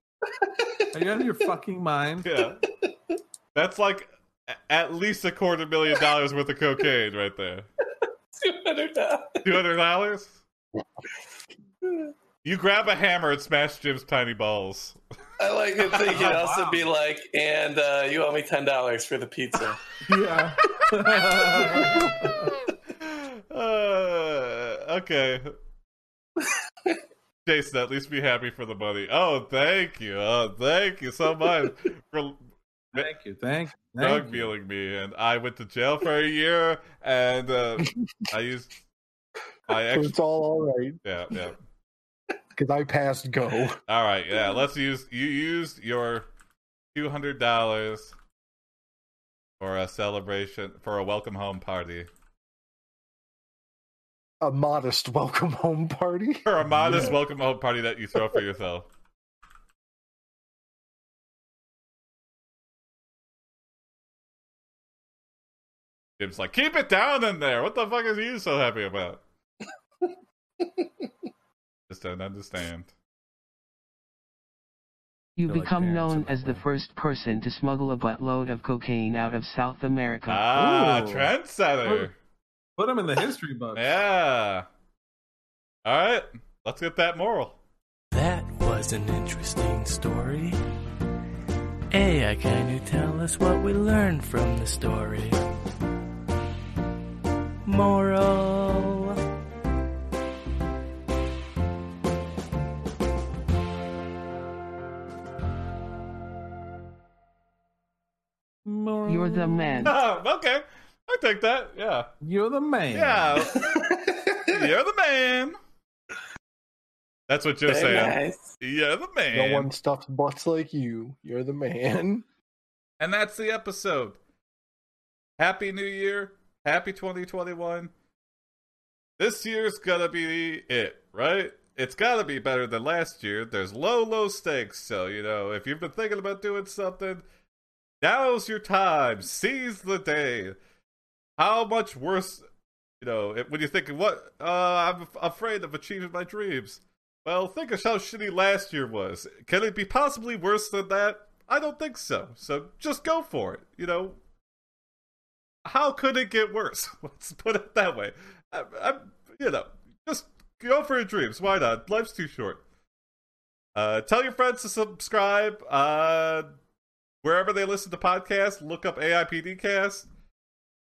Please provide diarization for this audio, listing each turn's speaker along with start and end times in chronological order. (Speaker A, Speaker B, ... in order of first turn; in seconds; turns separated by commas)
Speaker A: 0.3-1.2, Speaker B: 0.9-2.3, Speaker C: 2.2-2.6, Speaker A: 2.6-3.2, Speaker C: 3.5-7.7, Speaker A: 8.3-9.5, Speaker C: 9.4-10.4, Speaker A: 11.8-12.1, Speaker C: 12.4-15.0, Speaker A: 15.4-19.8, Speaker C: 15.8-16.4, Speaker B: 16.0-16.9, Speaker B: 20.0-22.5, Speaker C: 21.6-25.5, Speaker A: 26.4-27.0, Speaker C: 27.4-32.4, Speaker B: 32.9-34.5, Speaker C: 34.0-38.8, Speaker C: 39.7-40.1, Speaker D: 39.7-41.0, Speaker C: 41.0-41.6, Speaker D: 42.5-43.8, Speaker C: 43.9-46.3, Speaker C: 46.9-48.1, Speaker C: 49.6-52.1, Speaker D: 54.4-56.5, Speaker C: 56.5-58.9, Speaker B: 56.8-57.1, Speaker C: 66.2-69.2, Speaker C: 71.9-72.9, Speaker E: 75.4-80.5, Speaker B: 75.5-76.6, Speaker C: 80.3-82.1, Speaker B: 80.5-81.3, Speaker B: 81.8-82.1, Speaker B: 82.8-84.0, Speaker C: 83.7-84.7, Speaker C: 85.8-87.6, Speaker F: 88.1-90.6, Speaker F: 91.9-95.6, Speaker F: 97.6-99.2, Speaker B: 108.6-109.9, Speaker E: 109.1-109.9, Speaker C: 109.8-112.1, Speaker B: 112.2-113.4, Speaker C: 112.9-113.7, Speaker A: 113.5-114.6, Speaker C: 114.5-115.5, Speaker C: 117.3-119.7, Speaker A: 117.7-118.4, Speaker D: 119.3-122.2, Speaker C: 123.0-124.2, Speaker C: 125.4-127.9, Speaker C: 129.2-137.2, Speaker C: 138.0-140.6, Speaker C: 141.4-142.4, Speaker C: 143.0-154.2, Speaker C: 155.7-162.6, Speaker C: 163.7-166.5, Speaker C: 167.2-170.1